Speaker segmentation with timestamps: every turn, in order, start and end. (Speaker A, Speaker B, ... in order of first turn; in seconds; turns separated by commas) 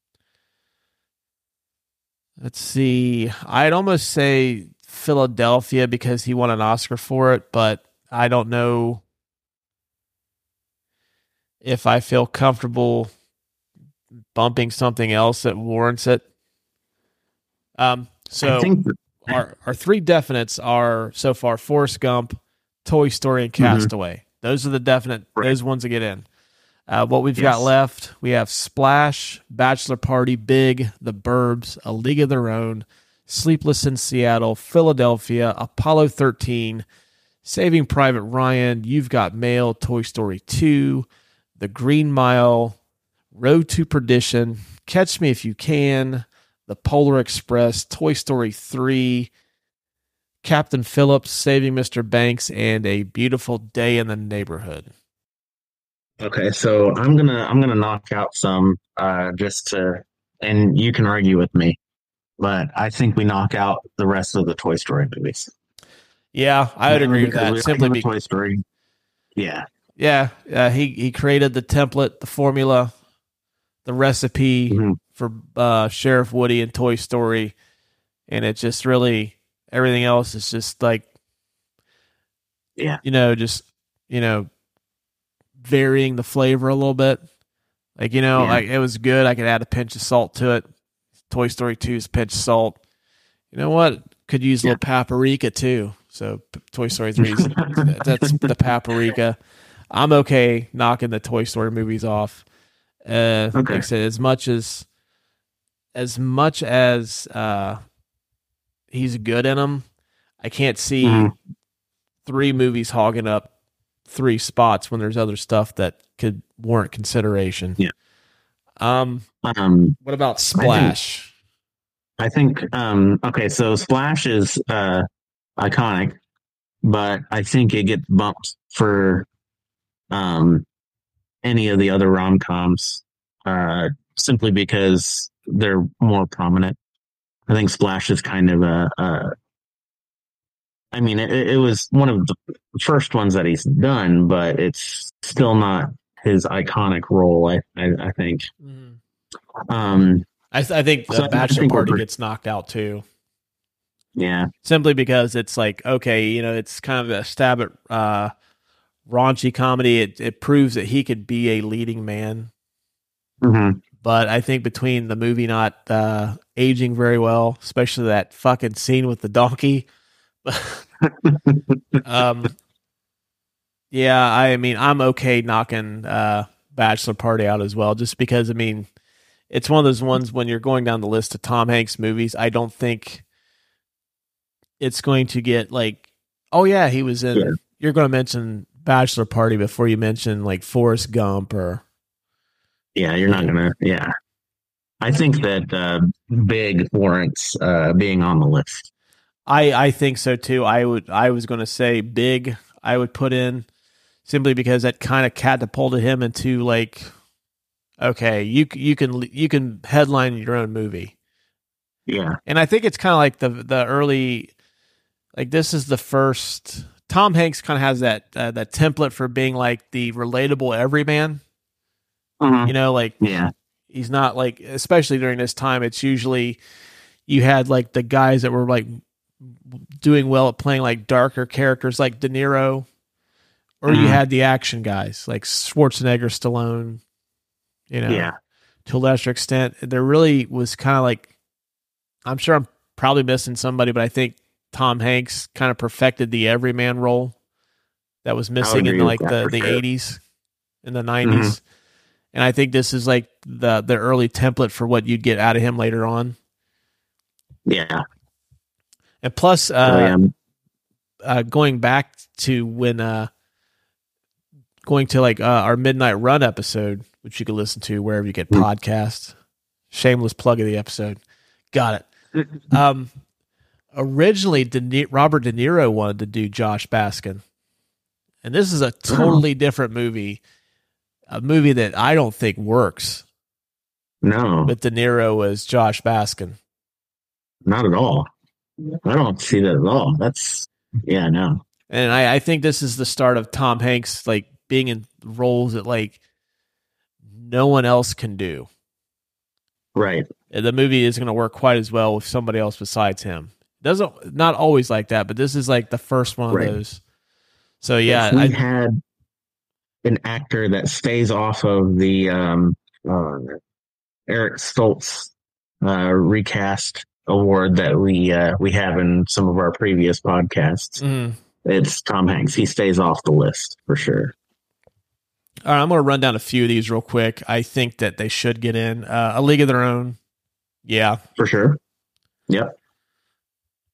Speaker A: 2.4-9.0, Speaker A: 11.6-13.1, Speaker A: 14.3-16.2, Speaker A: 17.8-18.7, Speaker B: 18.4-18.9, Speaker A: 19.2-26.3, Speaker B: 23.6-23.9, Speaker A: 26.9-36.9, Speaker B: 27.4-27.7, Speaker A: 37.5-41.1, Speaker A: 41.6-42.8, Speaker A: 43.3-49.3, Speaker A: 50.4-54.9, Speaker B: 56.2-61.8, Speaker B: 62.4-65.5, Speaker A: 66.3-68.1, Speaker B: 66.9-68.6, Speaker B: 69.4-69.7, Speaker A: 70.0-72.9, Speaker A: 73.8-77.5, Speaker B: 74.7-75.0, Speaker A: 78.3-81.0, Speaker B: 82.8-83.0, Speaker A: 83.0-84.5, Speaker A: 85.6-87.2, Speaker A: 88.0-90.7, Speaker B: 88.4-88.6, Speaker A: 91.3-92.8, Speaker A: 93.5-99.4, Speaker B: 97.2-98.1, Speaker A: 99.9-102.4, Speaker A: 103.0-104.9, Speaker B: 103.5-103.8, Speaker A: 106.0-107.8, Speaker A: 108.9-109.8, Speaker A: 110.4-111.3, Speaker B: 111.0-111.3, Speaker A: 112.2-113.5, Speaker A: 114.1-117.8, Speaker A: 118.8-119.3, Speaker B: 119.4-120.0, Speaker A: 120.0-121.3, Speaker B: 120.6-121.0, Speaker B: 122.2-125.0, Speaker B: 125.6-126.2, Speaker B: 126.8-129.3, Speaker B: 130.1-130.7, Speaker B: 131.4-136.8, Speaker B: 137.5-139.3, Speaker B: 140.9-148.5, Speaker A: 148.6-149.0, Speaker B: 149.7-150.3, Speaker A: 150.5-153.0, Speaker B: 151.1-152.0, Speaker B: 154.2-154.5, Speaker A: 154.6-158.3, Speaker A: 159.1-162.5, Speaker B: 163.4-163.8, Speaker A: 164.0-169.8, Speaker A: 170.4-170.9, Speaker B: 171.1-172.0, Speaker A: 172.0-172.6, Speaker A: 173.9-178.9, Speaker A: 179.5-183.2, Speaker A: 184.8-191.8, Speaker B: 193.0-194.1, Speaker B: 195.0-198.9, Speaker A: 199.5-203.7, Speaker A: 204.2-207.1, Speaker A: 208.0-211.1, Speaker B: 212.1-212.4, Speaker A: 212.5-214.5, Speaker A: 215.4-221.4, Speaker B: 222.4-223.5, Speaker A: 222.7-223.2, Speaker A: 223.9-226.6, Speaker A: 227.3-232.9, Speaker A: 233.8-237.0, Speaker B: 233.9-234.2, Speaker A: 237.9-238.3, Speaker B: 238.1-238.3, Speaker A: 238.9-241.3, Speaker A: 242.3-247.3, Speaker A: 248.2-250.2, Speaker B: 248.6-249.8, Speaker A: 250.8-251.6, Speaker B: 251.2-251.6, Speaker A: 252.3-256.4, Speaker B: 257.7-258.0, Speaker A: 259.2-260.2, Speaker B: 259.9-260.3, Speaker A: 261.2-263.3, Speaker A: 264.9-269.3, Speaker A: 269.9-271.2, Speaker A: 271.7-272.1, Speaker A: 272.7-273.1, Speaker A: 273.9-277.4, Speaker A: 278.4-280.4, Speaker B: 279.1-279.4, Speaker A: 281.3-283.2, Speaker B: 284.2-284.7, Speaker A: 284.7-286.6, Speaker B: 287.6-288.3, Speaker B: 289.1-291.6, Speaker A: 291.9-296.2, Speaker A: 297.3-298.7, Speaker B: 299.9-300.3, Speaker A: 300.5-307.0, Speaker A: 307.8-308.6, Speaker B: 308.1-309.0, Speaker B: 310.0-313.6, Speaker B: 314.3-315.3, Speaker B: 315.8-321.0, Speaker A: 321.0-321.4, Speaker B: 321.6-324.3, Speaker A: 325.7-330.2, Speaker A: 330.9-331.2, Speaker B: 331.4-331.8, Speaker B: 332.5-332.7